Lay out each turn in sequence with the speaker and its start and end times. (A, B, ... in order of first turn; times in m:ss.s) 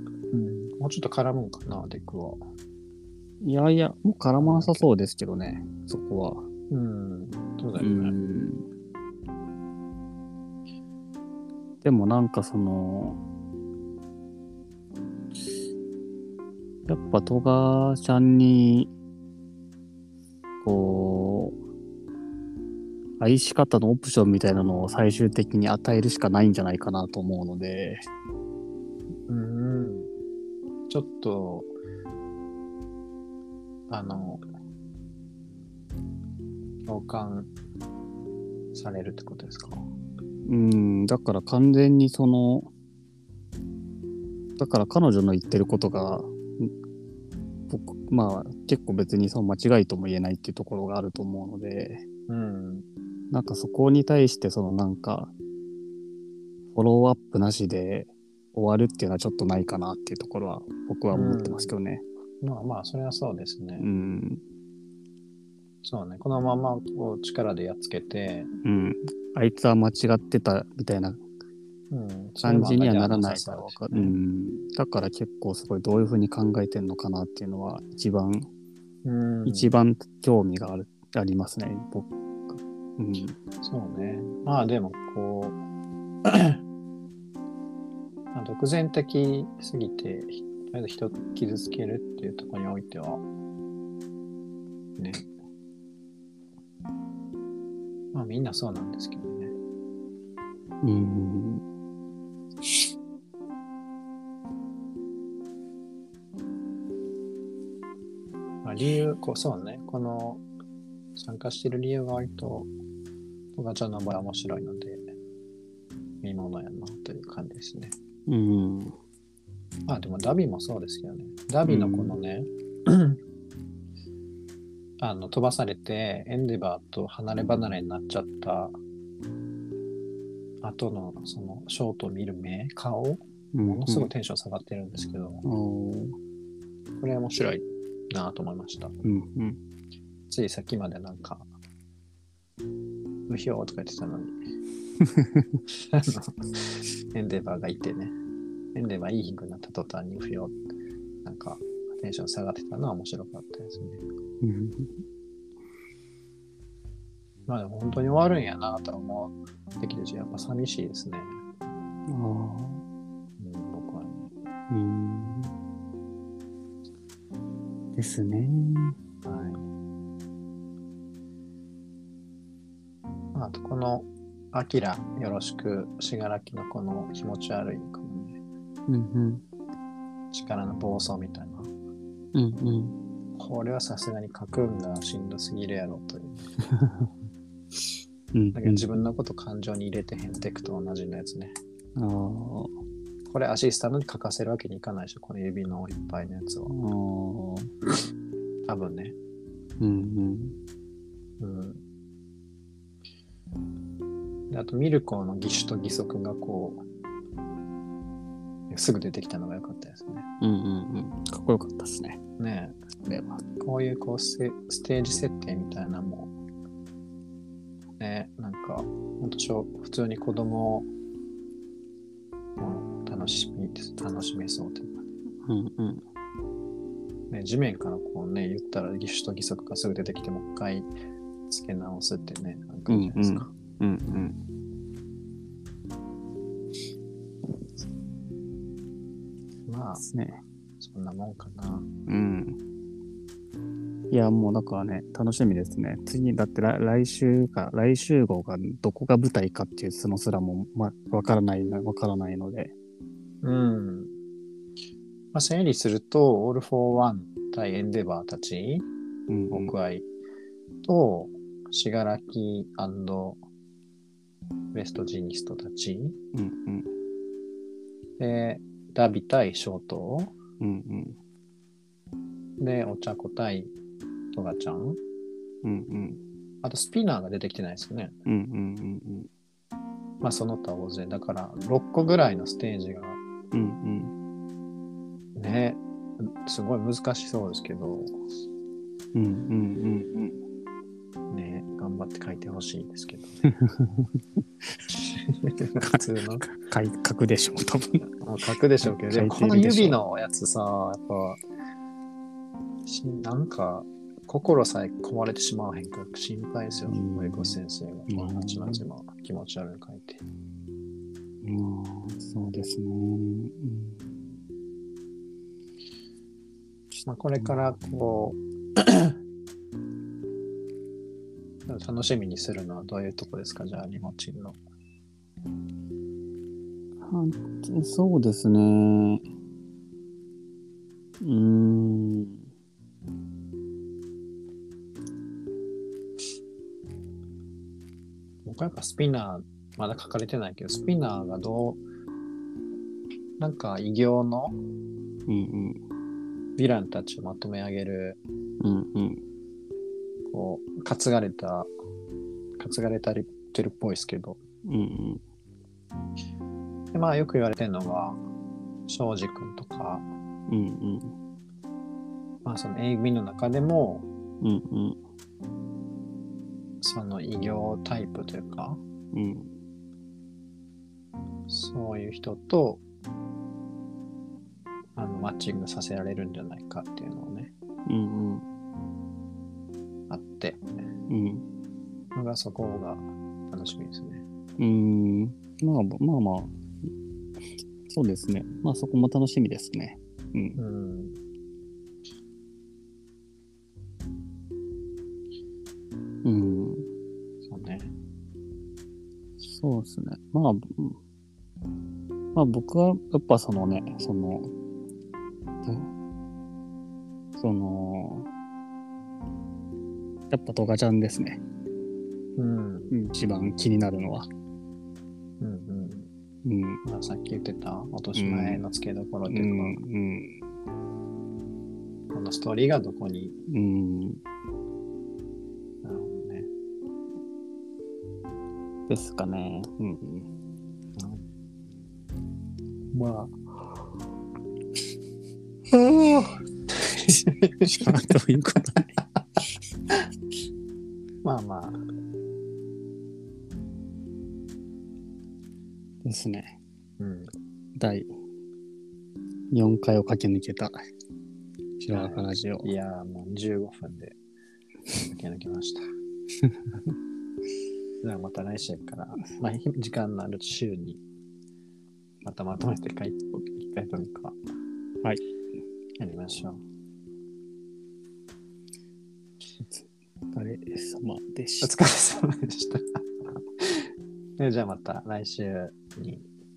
0:00.3-0:02.4 A
0:03.4-0:06.5 B
0:04.4-0:04.9 A
0:06.7-0:08.2 A
0:07.8-0:08.6 B
0:11.8-0:13.2 B
0:16.9-0:18.9 B
0:20.6-0:21.6 B
0:23.2-0:28.0 B
0:29.3-0:30.1 A
0:30.9-0:31.7 A
0:33.9-0:34.4 A
0:36.9-0:37.5 A
0:38.7-0:39.9 A
0:40.5-0:42.7 B
0:44.6-0:46.7 B
0:47.7-0:52.0 B
0:52.3-0:52.9 A
0:53.3-0:55.3 B
0:56.8-1:02.0 B
1:01.1-1:01.7 A
1:02.4-1:03.9 A
1:03.8-1:04.4 B
1:05.8-1:08.5 A
1:08.6-1:11.2 B
1:11.9-1:14.2 A
1:12.4-1:18.5 B
1:19.0-1:19.7 A
1:19.5-1:23.4 B
1:23.6-1:25.6 A
1:26.2-1:26.6 A
1:28.3-1:33.2 A
1:35.0-1:35.2 A
1:38.1-1:39.6 A
1:40.8-1:41.6 B
1:48.6-1:50.4 A
1:51.2-1:52.7 A
1:53.6-1:55.0 A
1:56.2-1:58.0 A
1:58.3-1:59.0 B
1:59.9-2:03.2 A
2:01.7-2:02.2 B
2:05.0-2:08.8 A
2:10.6-2:15.5 A
2:13.5-2:14.1 B
2:15.4-2:16.2 B
2:17.0-2:19.0 A
2:19.0-2:19.6 B
2:20.3-2:21.5 A
2:23.3-2:24.3 A
2:25.0-2:25.6 B
2:25.8-2:28.2 A
2:28.8-2:30.6 A
2:31.2-2:34.0 A
2:34.4-2:35.0 B
2:37.5-2:41.4 A
2:42.1-2:42.8 B
2:43.4-2:44.3 A
2:44.7-2:45.5 B
2:48.0-2:49.0 B
2:49.2-2:49.6 A
2:53.3-2:58.4 A
2:58.9-2:59.4 B
3:00.3-3:01.7 A
3:02.3-3:03.0 B
3:03.4-3:06.5 A
3:06.7-3:07.1 B
3:08.3-3:08.9 B
3:08.6-3:11.6 A
3:12.0-3:12.7 B
3:13.3-3:16.7 A
3:16.7-3:17.7 B
3:18.7-3:19.2 A
3:19.8-3:20.6 B
3:21.4-3:21.8 A
3:24.5-3:26.8 A
3:28.7-3:30.3 A
3:30.4-3:32.2 B
3:32.4-3:32.8 A
3:33.0-3:33.4 B
3:33.6-3:36.3 A
3:38.0-3:40.9 A
3:42.6-3:45.1 A
3:45.4-3:46.0 B
3:47.3-3:50.9 A
3:51.5-3:53.5 A
3:52.9-3:54.4 B
3:59.7-4:00.0 A
4:00.0-4:00.4 B
4:00.8-4:01.9 A
4:02.1-4:02.6 B
4:04.1-4:12.7 B
4:13.4-4:14.1 A
4:15.3-4:18.9 A
4:19.3-4:19.7 B
4:19.5-4:20.1 A
4:20.8-4:23.4 A
4:24.7-4:26.2 A
4:26.3-4:26.9 B
4:28.2-4:30.3 A
4:30.6-4:31.2 B
4:32.6-4:33.7 A
4:34.3-4:35.0 A
4:35.6-4:36.2 B
4:36.6-4:38.2 A
4:38.3-4:39.3 B
4:40.2-4:43.2 A
4:43.5-4:44.1 B
4:45.4-4:48.1 A
4:49.1-4:50.4 B
4:51.3-4:53.4 A
4:53.5-4:54.1 B
4:55.2-4:56.5 A
4:55.8-4:58.0 B
4:58.2-5:01.4 A
4:58.8-5:00.0 B
5:02.9-5:10.2 A
5:06.9-5:07.6 B
5:08.1-5:08.8 B
5:11.4-5:14.1 B
5:17.0-5:19.2 A
5:21.7-5:24.6 A
5:27.0-5:29.2 B
5:31.2-5:32.5 B
5:38.4-5:41.8 A
5:43.4-5:44.6 A
5:45.3-5:45.8 B
5:46.6-5:48.2 A
5:48.6-5:49.2 B
5:50.3-5:51.7 A
5:52.6-5:54.4 A
5:54.6-5:55.2 B
5:56.9-5:58.2 A
5:58.9-6:00.1 A
6:00.5-6:01.2 B
6:02.4-6:04.1 A
6:04.4-6:05.0 B
6:06.8-6:08.8 A
6:09.1-6:09.5 B
6:11.5-6:12.8 A
6:15.0-6:17.5 A
6:17.9-6:18.4 B
6:20.1-6:20.7 A
6:21.1-6:21.4 B
6:22.2-6:24.2 A
6:24.6-6:26.5 B
6:27.9-6:30.6 B
6:30.6-6:31.2 A
6:36.2-6:36.9 B
6:37.4-6:37.9 A
6:39.4-6:41.0 B
6:42.3-6:44.5 B
6:45.6-6:45.9 B
6:47.4-6:48.3 B
6:50.3-6:51.4 B
6:52.4-6:52.9 A
6:52.9-6:54.3 B
6:55.4-6:56.1 A
6:56.4-6:56.8 B
6:56.8-6:59.8 A
6:58.2-6:58.6 B
6:59.3-7:00.4 B
7:02.1-7:03.4 A
7:03.5-7:04.2 B
7:05.8-7:06.5 A
7:08.9-7:10.3 B
7:11.0-7:11.2 A
7:12.9-7:13.3 A
7:15.7-7:17.9 A
7:17.6-7:18.9 B
7:21.2-7:21.8 A
7:26.0-7:26.6 B
7:27.0-7:27.3 A
7:27.8-7:28.1 B
7:29.5-7:30.8 B
7:31.8-7:32.7 B
7:31.9-7:34.2 A
7:35.0-7:35.8 A
7:38.0-7:41.0 A
7:42.2-7:44.4 A
7:46.0-7:46.6 A
7:50.3-7:51.7 B
7:51.6-7:53.0 A
7:53.6-7:53.9 A
7:54.4-7:56.3 A